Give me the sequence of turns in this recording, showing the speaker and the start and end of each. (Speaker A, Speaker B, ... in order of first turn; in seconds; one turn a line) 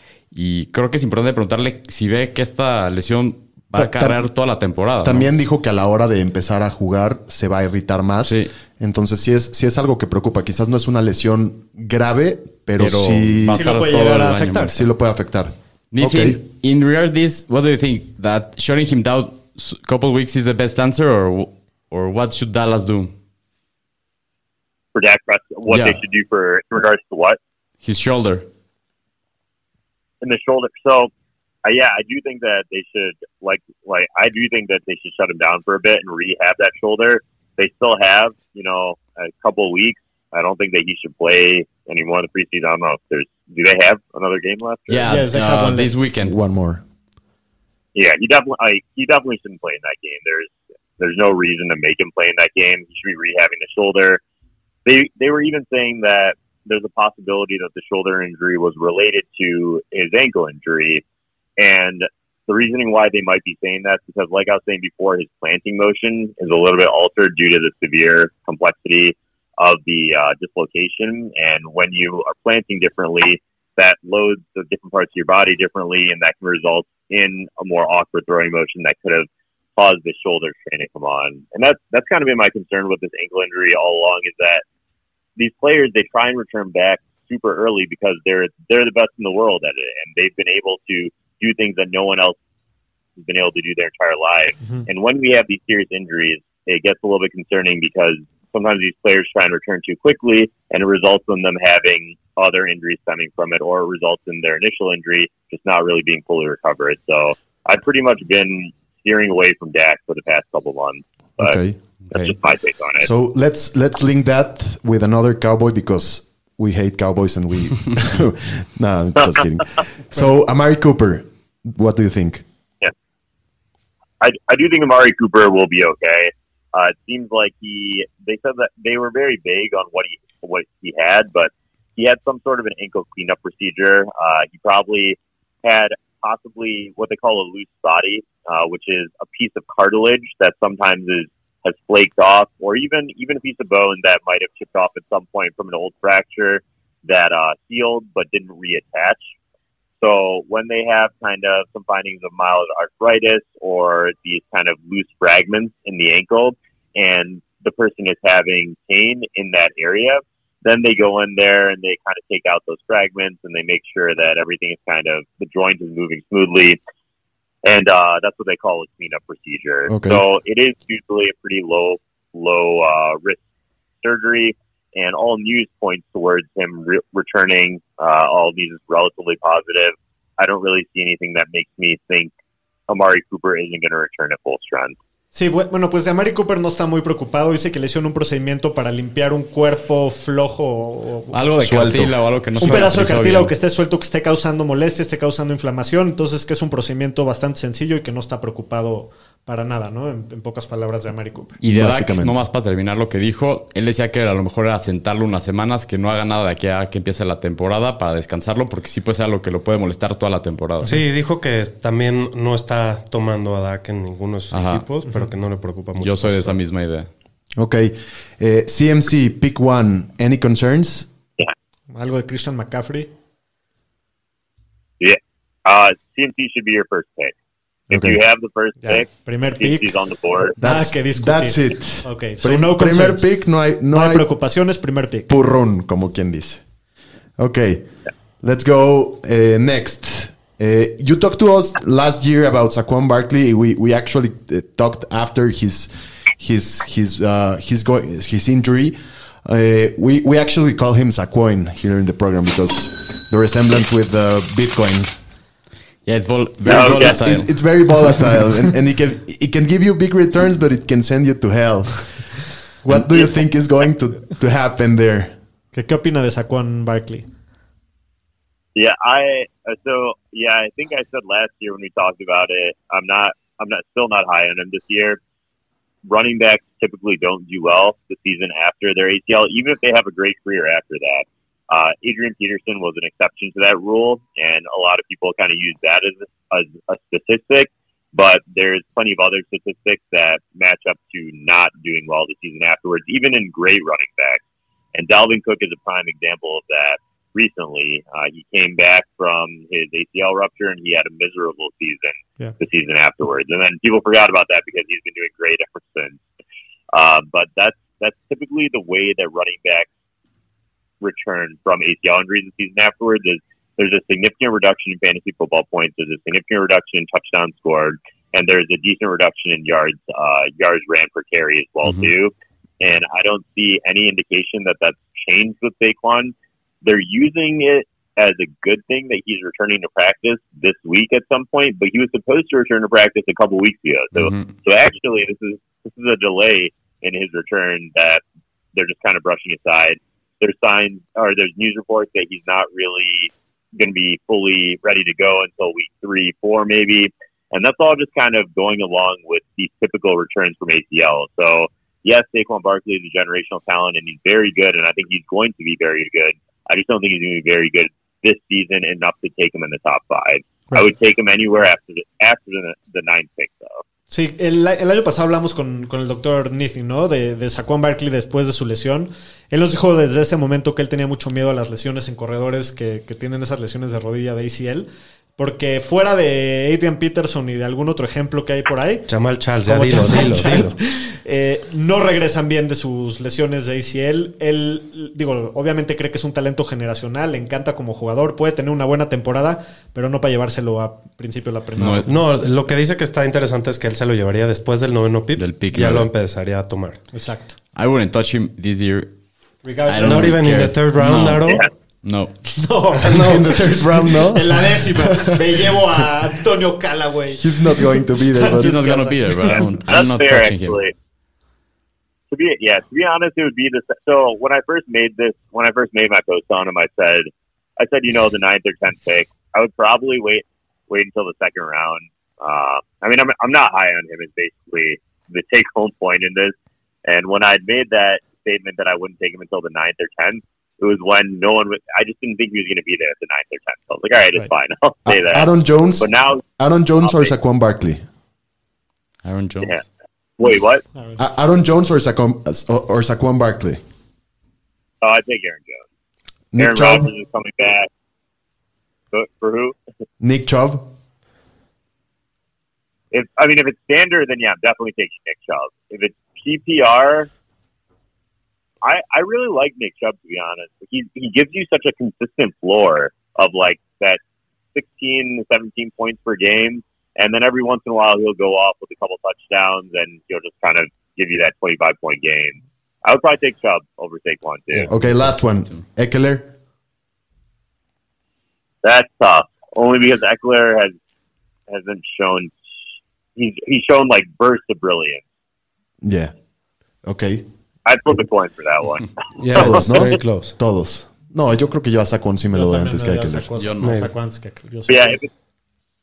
Speaker A: 0.3-5.3
Speaker B: 3.7-4.2
Speaker B: 5.0-13.6
Speaker A: 8.2-8.5
Speaker A: 12.8-14.8
Speaker C: 13.5-14.8
Speaker B: 14.7-16.4
Speaker A: 15.9-23.1
Speaker D: 24.9-27.4
Speaker A: 25.7-26.0
Speaker A: 27.8-28.4
Speaker D: 30.2-31.1
Speaker D: 31.6-45.1
Speaker A: 44.9-46.4
Speaker C: 45.0-46.0
Speaker B: 46.2-46.8
Speaker D: 47.9-54.2
Speaker D: 54.8-61.0
Speaker D: 61.6-84.6
Speaker D: 85.4-92.4
Speaker D: 93.2-111.6
Speaker B: 111.4-111.8
Speaker A: 112.1-112.3
Speaker D: 112.1-113.1
Speaker B: 113.0-122.4
Speaker D: 124.2-149.2
Speaker D: 150.0-166.8
Speaker D: 167.6-173.4
Speaker B: 169.9-170.2
Speaker D: 174.0-182.3
Speaker D: 182.9-184.9
Speaker C: 185.3-191.4
Speaker A: 191.3-193.5
Speaker B: 191.6-192.1
Speaker C: 192.6-201.6
Speaker E: 192.6-192.9
Speaker A: 201.6-210.9
Speaker B: 201.6-202.4
Speaker E: 210.8-216.6
Speaker A: 214.5-214.8
Speaker C: 215.1-215.3
Speaker A: 215.9-217.1
Speaker B: 217.6-221.1
Speaker C: 221.9-223.1
Speaker D: 225.0-227.3
Speaker D: 227.9-230.6
Speaker B: 227.9-228.2
Speaker C: 228.8-229.8
Speaker B: 230.6-234.3
Speaker C: 230.6-233.3
Speaker C: 233.9-235.4
Speaker B: 235.3-236.6
Speaker B: 237.4-237.8
Speaker B: 238.4-255.2
Speaker A: 256.1-257.5
Speaker B: 256.6-265.3
Speaker D: 256.7-257.1
Speaker D: 262.9-263.3
Speaker C: 265.7-267.3
Speaker D: 268.7-275.2
Speaker D: 276.1-294.4
Speaker D: 294.9-306.2
Speaker D: 306.9-309.9
Speaker D: 311.0-338.2
Speaker A: 321.8-322.1
Speaker A: 334.1-334.5
Speaker D: 338.7-363.8
Speaker C: 364.1-392.2
Speaker E: 379.1-380.7
Speaker A: 391.8-392.1
Speaker E: 392.0-397.0
Speaker A: 395.4-396.1
Speaker C: 397.1-397.5
Speaker A: 397.7-399.1
Speaker C: 399.6-400.4
Speaker A: 399.9-402.3
Speaker E: 400.0-401.7
Speaker C: 402.5-409.7
Speaker B: 403.1-405.4
Speaker B: 407.3-409.1
Speaker A: 408.5-410.8
Speaker D: 409.9-410.9
Speaker D: 412.3-426.5
Speaker D: 427.1-436.4
Speaker B: 435.1-438.0
Speaker D: 437.0-437.3
Speaker A: 439.2-439.8
Speaker D: 440.4-440.8
Speaker B: 441.2-443.8
Speaker D: 445.0-445.8
Speaker B: 446.5-447.1
Speaker D: 446.6-447.9
Speaker D: 449.1-449.8
Speaker B: 450.2-450.9
Speaker D: 453.1-457.3
Speaker D: 458.8-464.2
Speaker D: 464.7-474.9
Speaker B: 474.9-476.5
Speaker D: 478.8-481.0
Speaker D: 481.7-482.5
Speaker D: 483.4-485.2
Speaker B: 486.0-486.3
Speaker B: 487.0-487.4
Speaker D: 487.8-490.0
Speaker E: 489.4-490.6
Speaker B: 489.5-493.5
Speaker C: 492.5-495.2
Speaker A: 493.6-494.0
Speaker E: 493.8-494.1
Speaker D: 494.9-495.3